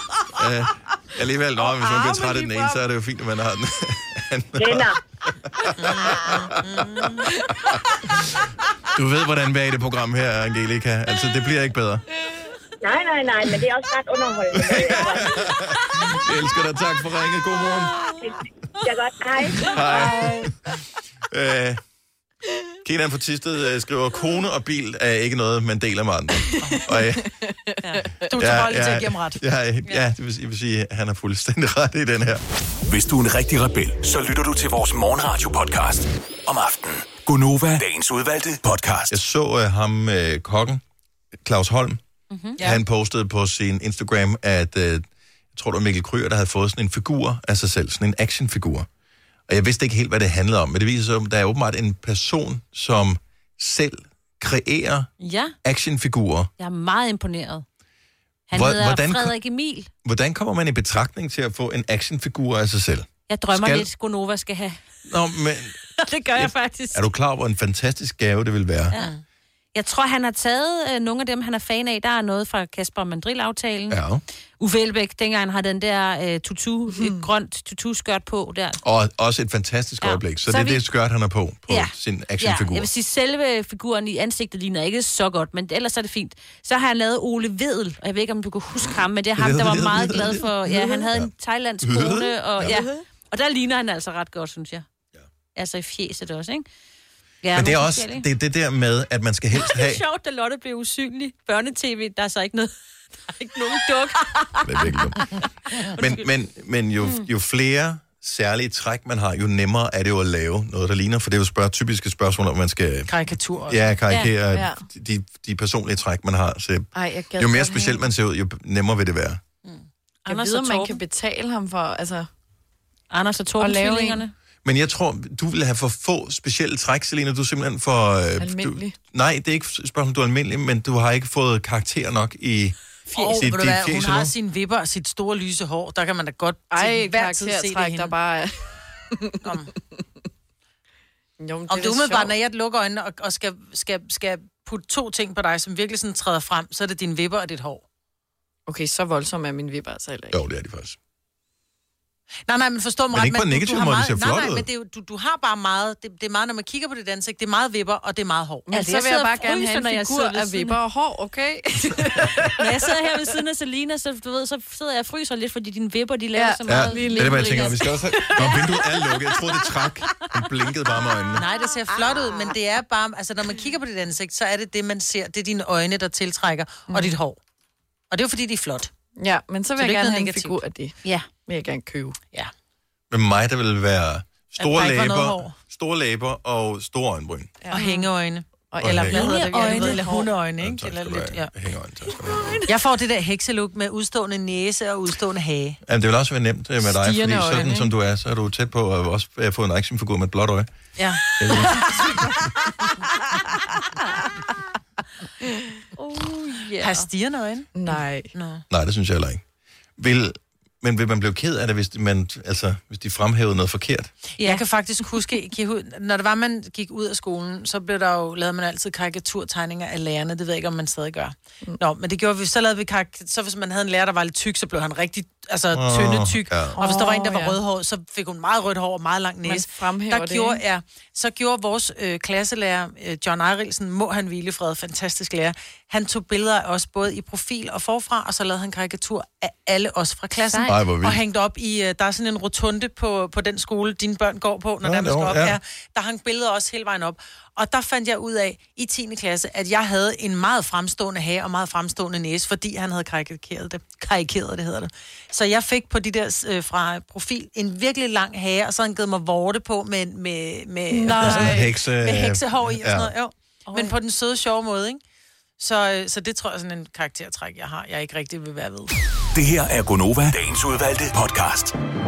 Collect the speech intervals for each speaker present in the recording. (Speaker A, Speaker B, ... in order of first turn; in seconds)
Speaker A: 0.3-4.9, 5.5-7.0, 7.6-8.1, 8.9-12.0, 14.5-18.0, 19.6-20.6, 21.3-21.8, 22.8-27.3, 28.3-32.4, 39.1-40.8, 41.3-42.0, 42.6-48.9, 49.5-55.1, 55.6-56.5, 58.5-59.4, 60.0-63.9, 65.0-65.8, 66.3-69.0, 73.9-74.2, 78.8-82.9, 89.4-92.8, 97.5-100.0, 104.6-113.1, 113.6-119.4, 124.6-134.3, 150.3-151.0, 153.1-154.7, 166.7-171.4, 183.1-187.5, 188.8-189.3, 190.6-192.6, 195.8-200.7, 201.3-202.2, 208.7-209.4, 210.0-214.1, 225.7-226.8, 240.6-241.2, 244.8-245.6, 261.1-263.1
Speaker B: 1.6-2.8, 19.9-20.5, 27.2-28.1, 76.9-77.3, 114.5-114.8, 116.9-118.0, 120.3-122.3, 123.6-124.2, 128.4-128.9, 136.7-139.4, 141.4-142.3, 148.7-150.4, 158.7-163.1, 166.3-169.9, 176.9-177.2, 179.2-182.2, 188.7-190.3, 192.1-192.7, 196.8-197.9, 201.5-202.9, 207.7-208.3, 226.8-227.6, 229.4-230.6, 260.9-261.7
Speaker C: 4.6-5.0, 12.8-15.6, 18.2-19.9
Speaker D: 5.8-7.3, 28.2-29.4, 68.9-69.2, 113.1-113.9, 133.1-138.1, 139.4-139.7, 141.7-147.8, 152.5-158.7, 171.4-177.4, 178.1-178.9, 179.8-180.6, 184.6-185.6, 187.7-191.5, 192.7-195.8, 200.9-202.0, 206.8-208.6, 214.4-265.0, 265.6-268.9
Speaker E: 32.8-39.1, 269.3-271.7
Speaker F: 42.3-42.6, 55.2-55.5, 56.6-57.6, 58.5-59.9, 63.3-64.8, 66.0-67.1, 69.7-74.0, 74.6-78.8, 80.0-80.8, 81.7-94.8, 95.5-96.7, 97.4-98.2, 99.5-102.7, 103.3-106.2, 107.0-107.3, 120.2-121.0, 123.1-124.3, 158.7-160.8, 162.6-168.2, 187.7-188.1, 189.2-190.0, 205.9-207.1, 240.5-240.7